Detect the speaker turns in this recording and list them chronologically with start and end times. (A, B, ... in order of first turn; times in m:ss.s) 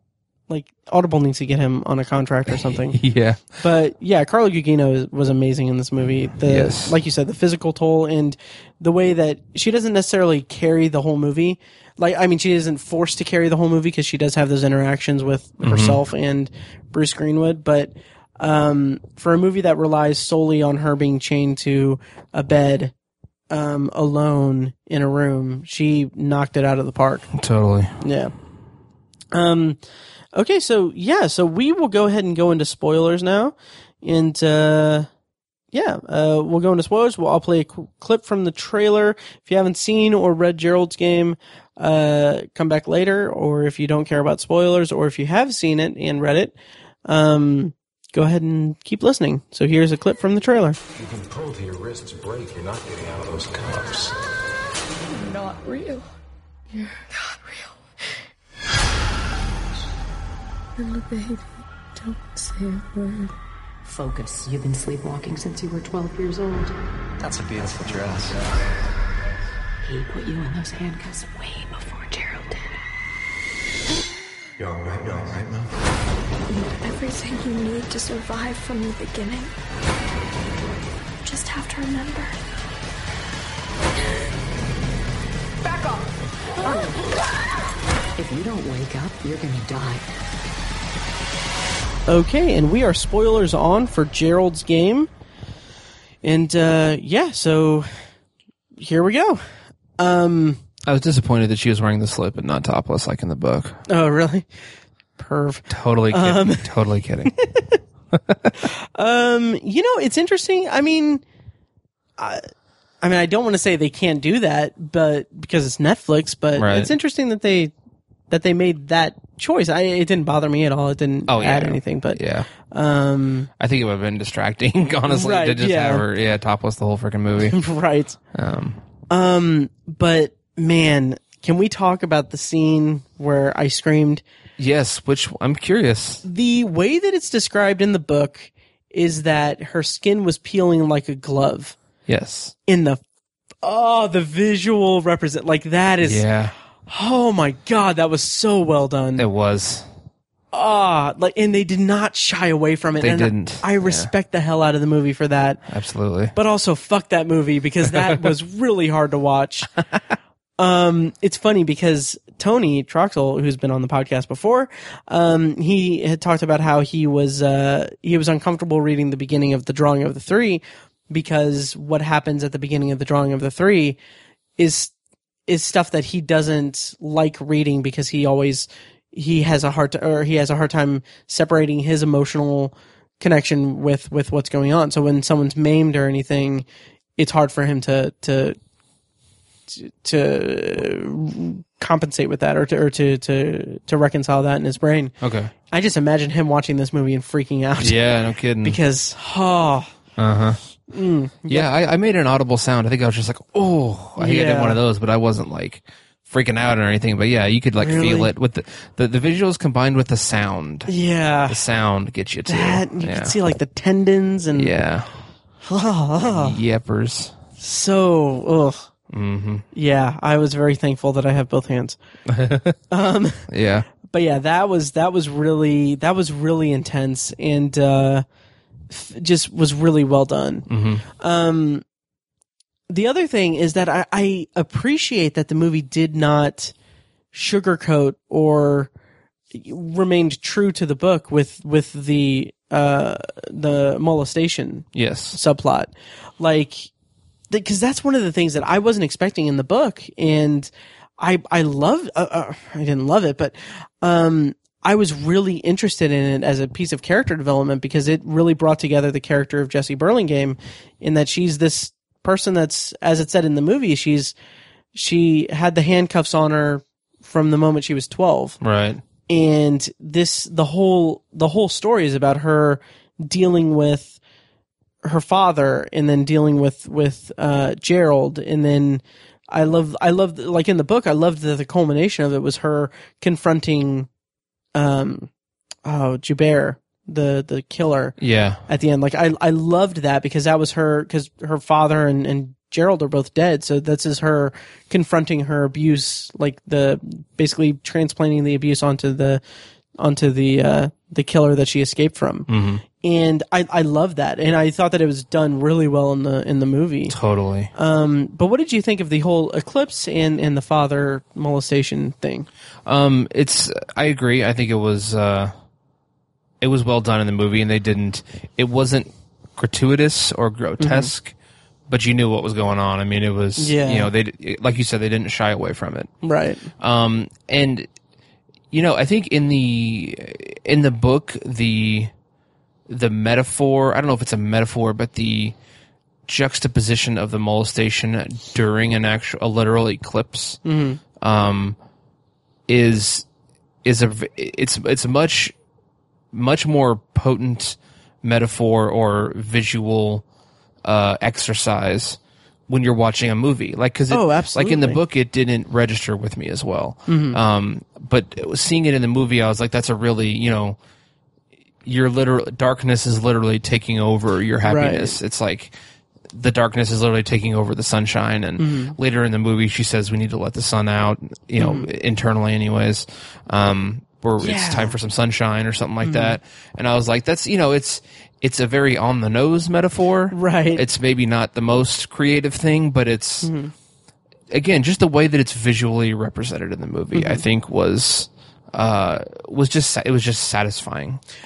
0:00.5-0:03.0 A
0:02.5-0:03.6 B
0:03.6-0:22.9 A
0:06.4-0:06.9 B
0:15.6-0:16.0 B
0:23.5-0:27.3 A
0:27.3-0:27.9 B
0:28.0-0:28.3 A
0:29.3-0:29.8 A
0:30.3-0:35.1 A
0:35.7-0:46.5 A
0:47.1-0:50.8 A
0:51.0-0:54.1 C
0:55.0-0:56.1 D
0:56.7-0:57.8 D
1:00.8-1:03.3 D
1:03.8-1:06.7 E
1:07.2-1:08.7 C
1:09.8-1:12.8 E
1:14.6-1:15.7 C
1:16.5-1:19.5 D
1:21.2-1:22.4 D
1:26.6-1:27.1 E
1:28.2-1:30.1 E
1:32.1-1:35.1 A
1:36.2-1:37.9 A
1:38.8-1:39.4 A
1:40.0-1:40.6 A
1:40.8-1:43.8 B
1:43.9-1:44.5 A
1:45.2-1:46.7 A
1:45.7-1:47.3 B
1:47.4-1:47.8 A
1:48.1-1:48.5 B
1:48.6-1:51.2 A
1:52.2-1:52.4 A
1:53.0-1:57.7 A
1:56.6-1:56.9 B
1:58.3-2:03.5 A
2:01.3-2:02.5 B
2:03.6-2:07.6 B
2:05.1-2:06.0 A
2:07.5-2:08.2 A
2:08.3-2:08.8 B
2:09.1-2:14.2 A
2:14.6-2:16.2 B
2:16.2-2:21.8 A
2:22.1-2:22.5 B
2:22.7-2:23.0 A
2:23.6-2:26.2 A
2:26.0-2:26.5 B
2:26.9-2:29.3 A
2:29.2-2:29.8 B
2:30.5-2:35.6 A
2:33.0-2:34.1 B
2:35.7-2:36.3 B
2:36.3-2:39.7 A
2:40.6-2:54.0 A
2:54.6-2:54.9 A
2:55.5-3:06.6 A
3:07.2-3:08.6 A
3:09.7-3:15.1 A
3:15.2-3:15.5 B
3:15.7-3:19.9 A
3:17.8-3:18.8 B
3:20.2-3:20.6 B
3:20.9-3:21.7 A
3:21.5-3:30.9 B
3:24.2-3:24.8 A
3:27.8-3:28.3 A
3:30.9-3:31.6 A
3:31.5-3:33.3 B
3:32.5-3:34.7 A
3:34.5-3:35.1 B
3:35.6-3:36.6 A
3:36.3-3:37.3 B
3:37.6-3:38.9 A
3:39.1-3:39.6 B
3:39.7-3:42.0 A
3:42.3-3:42.8 B
3:42.9-3:43.5 A
3:43.5-3:43.9 B
3:44.0-3:48.2 A
3:48.9-3:50.7 A
3:50.7-3:51.0 B
3:51.2-3:51.8 A
3:52.9-3:56.7 A
3:57.3-3:58.9 A
3:59.5-4:06.9 A
4:04.9-4:05.4 B
4:07.5-4:24.3 A
4:24.9-4:28.6 A
4:28.6-4:29.0 B
4:29.3-4:34.2 A
4:35.0-4:44.1 A
4:44.7-4:45.3 A
4:45.8-4:48.1 A
4:48.2-4:48.6 B
4:48.7-4:59.4 A
5:00.0-5:07.2 A
5:02.5-5:02.8 B
5:07.1-5:07.7 B
5:07.7-5:12.5 A
5:12.8-5:15.5 B
5:16.6-5:21.3 B
5:20.8-5:21.1 A
5:21.9-5:26.1 B
5:23.6-5:24.1 A
5:26.2-5:26.7 A
5:26.8-5:27.9 B
5:28.7-5:32.1 B
5:32.9-5:35.6 B
5:36.2-5:40.6 B
5:40.6-5:41.0 A
5:41.2-5:41.8 B
5:42.7-5:43.3 B
5:43.8-5:45.5 B
5:46.3-5:50.2 B
5:50.8-6:00.8 B
5:54.1-5:55.0 A
5:57.1-5:57.4 A
6:01.8-6:05.7 B
6:04.6-6:05.2 A
6:06.3-6:23.5 B
6:08.6-6:09.0 A
6:11.6-6:11.9 A
6:14.4-6:14.9 A
6:16.0-6:16.4 A
6:20.3-6:20.8 A
6:23.4-6:23.7 A
6:24.5-6:31.2 B
6:27.1-6:27.4 A